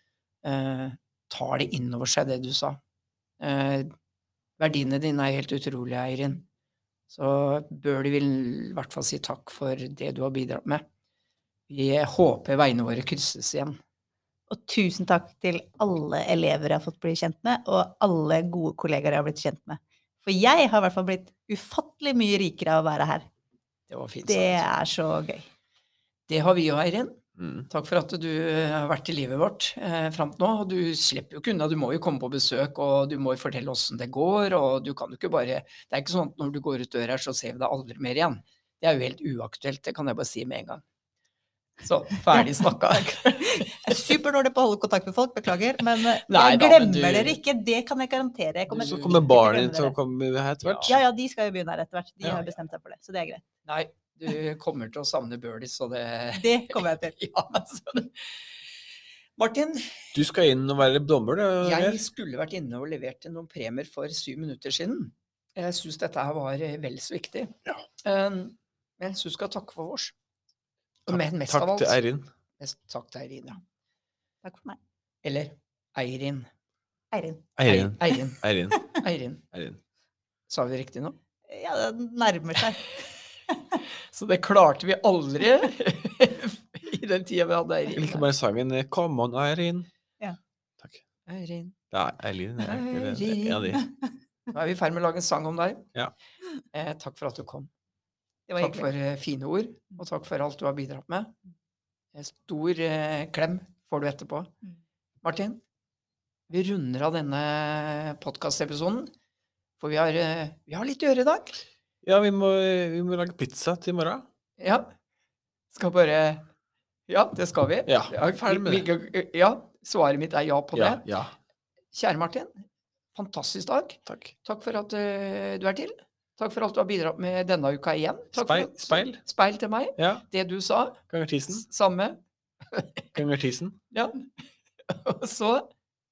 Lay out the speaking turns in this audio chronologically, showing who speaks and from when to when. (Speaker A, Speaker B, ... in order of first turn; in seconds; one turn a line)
Speaker A: 0.4-2.8
Speaker A: 3.4-3.9
Speaker A: 4.6-6.4
Speaker A: 7.1-10.8
Speaker A: 11.7-13.8
Speaker B: 14.5-23.2
Speaker A: 23.9-24.7
Speaker B: 24.2-25.5
Speaker A: 26.3-40.8
Speaker C: 27.4-27.6
Speaker A: 41.8-44.0
Speaker B: 43.4-49.9
Speaker A: 46.3-47.4
Speaker C: 48.7-51.0
Speaker A: 50.6-50.9
Speaker B: 50.8-53.4
Speaker A: 53.6-58.3
Speaker B: 56.3-57.1
Speaker A: 59.4-60.1
Speaker C: 60.1-62.0
Speaker A: 61.6-70.1
Speaker A: 71.0-72.0
Speaker C: 71.1-72.3
Speaker A: 72.6-73.6
Speaker B: 74.4-74.8
Speaker A: 75.2-76.5
Speaker B: 77.1-77.5
Speaker C: 77.6-78.8
Speaker A: 77.7-79.4
Speaker B: 78.7-79.0
Speaker C: 79.5-79.8
Speaker A: 80.5-81.2
Speaker B: 81.5-82.9
Speaker B: 83.5-83.8
Speaker A: 84.1-88.3
Speaker C: 87.9-89.9
Speaker A: 91.3-91.8
Speaker C: 91.9-93.8
Speaker A: 92.6-93.8
Speaker B: 93.6-94.1
Speaker A: 94.5-95.9
Speaker A: 96.7-97.7
Speaker B: 98.5-98.9
Speaker A: 98.6-101.3
Speaker A: 102.1-104.5
Speaker A: 105.2-105.6
Speaker A: 106.5-109.1
Speaker A: 109.8-111.6
Speaker C: 112.0-114.2
Speaker A: 114.6-114.9
Speaker A: 115.7-116.4
Speaker A: 117.1-121.0
Speaker C: 117.9-118.9
Speaker C: 120.7-121.3
Speaker A: 121.9-133.1
Speaker C: 124.1-124.3
Speaker C: 128.3-129.2
Speaker C: 130.0-130.2
Speaker C: 131.1-131.6
Speaker C: 133.1-133.8
Speaker A: 133.9-134.3
Speaker A: 134.8-135.7